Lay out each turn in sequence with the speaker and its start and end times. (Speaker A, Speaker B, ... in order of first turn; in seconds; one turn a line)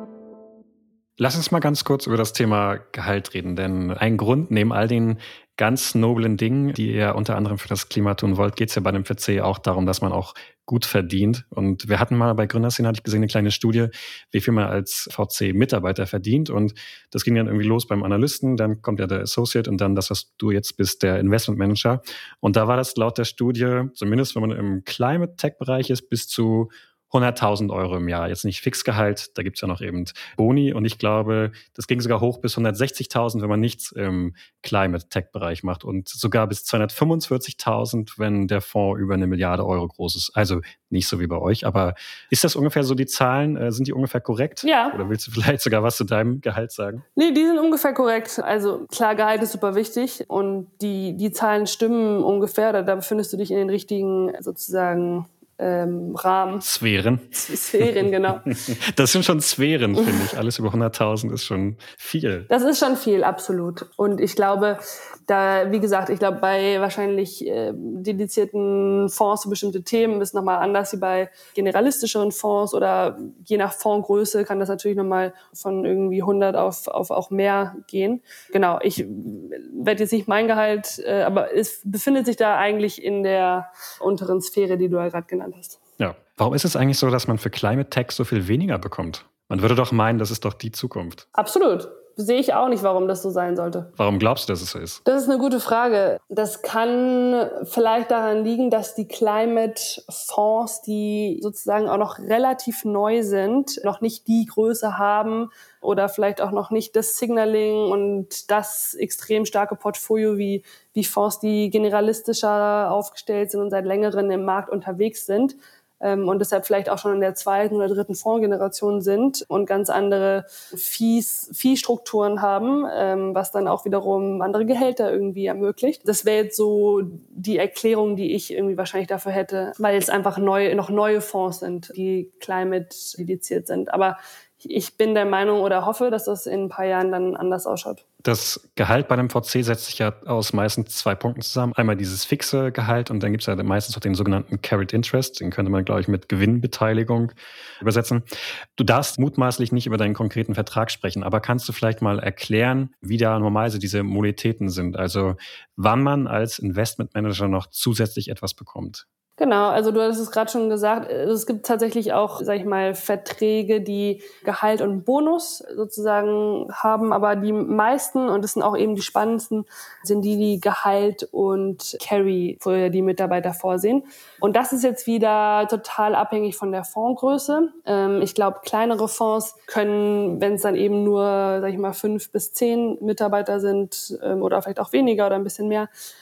Speaker A: 1.2-47.0
Speaker B: 44.6-45.0
Speaker B: 47.1-56.6
Speaker A: 56.6-62.5
Speaker B: 57.3-58.5
Speaker B: 62.5-85.8
Speaker A: 86.0-91.2
Speaker B: 91.3-93.9
Speaker A: 94.0-95.0
Speaker B: 95.0-138.0
Speaker A: 138.2-148.2
Speaker A: 148.8-159.0
Speaker B: 159.4-185.9